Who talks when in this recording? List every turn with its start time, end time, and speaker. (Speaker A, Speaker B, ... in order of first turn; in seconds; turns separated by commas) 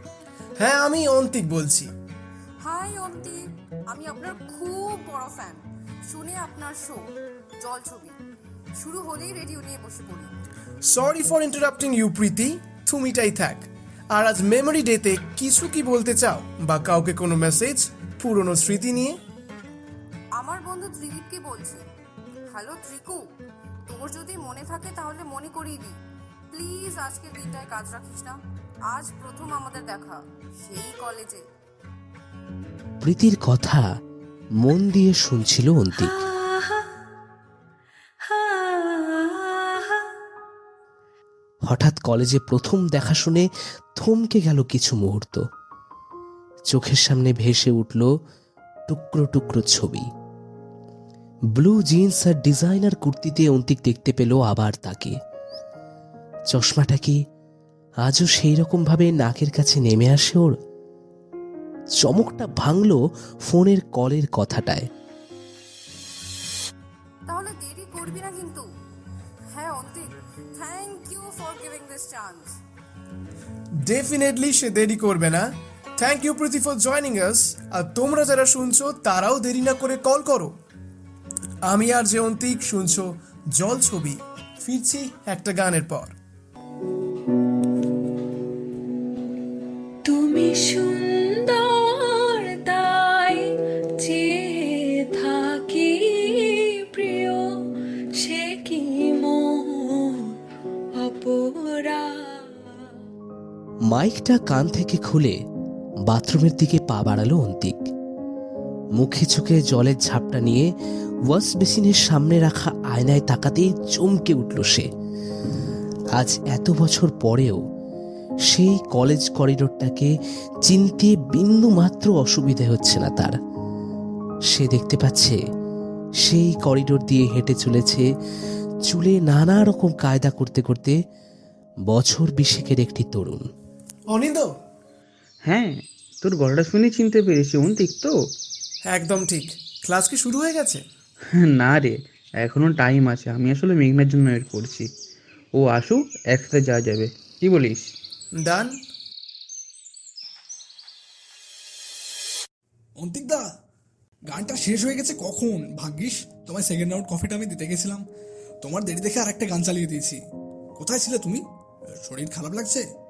Speaker A: 0.6-1.9, Speaker B: 2.6-7.0, Speaker B: 7.6-8.2, Speaker B: 8.8-10.3, Speaker A: 10.8-19.1, Speaker B: 20.4-21.8, Speaker B: 22.5-23.2, Speaker B: 23.9-25.9, Speaker B: 26.5-31.4, Speaker C: 33.0-33.8, Speaker C: 34.6-36.1, Speaker D: 35.9-36.9, Speaker D: 38.2-40.1, Speaker C: 41.7-43.5, Speaker C: 44.0-45.4, Speaker C: 46.7-48.1, Speaker C: 48.9-50.1, Speaker C: 51.5-55.1, Speaker C: 56.5-57.2, Speaker C: 58.0-60.5, Speaker C: 62.0-64.9, Speaker B: 67.3-68.6, Speaker B: 69.5-72.6, Speaker A: 73.8-75.4, Speaker A: 76.0-80.5, Speaker A: 81.7-86.1, Speaker D: 90.0-93.4, Speaker D: 94.0-97.6, Speaker D: 98.2-100.3, Speaker D: 101.0-102.4, Speaker C: 103.9-105.4, Speaker C: 106.1-107.8, Speaker C: 109.0-110.7, Speaker C: 111.3-114.9, Speaker C: 116.2-117.6, Speaker C: 118.5-120.1, Speaker C: 120.7-123.3, Speaker C: 124.5-125.4, Speaker C: 126.2-128.0, Speaker C: 128.9-131.0, Speaker C: 131.9-133.4, Speaker A: 134.1-134.5, Speaker E: 135.4-138.1, Speaker A: 138.9-140.8, Speaker E: 141.3-144.9, Speaker E: 145.5-147.9, Speaker A: 148.4-148.8, Speaker F: 153.0-153.4, Speaker F: 154.3-158.0, Speaker F: 158.6-160.2, Speaker F: 160.8-161.4, Speaker F: 162.0-162.8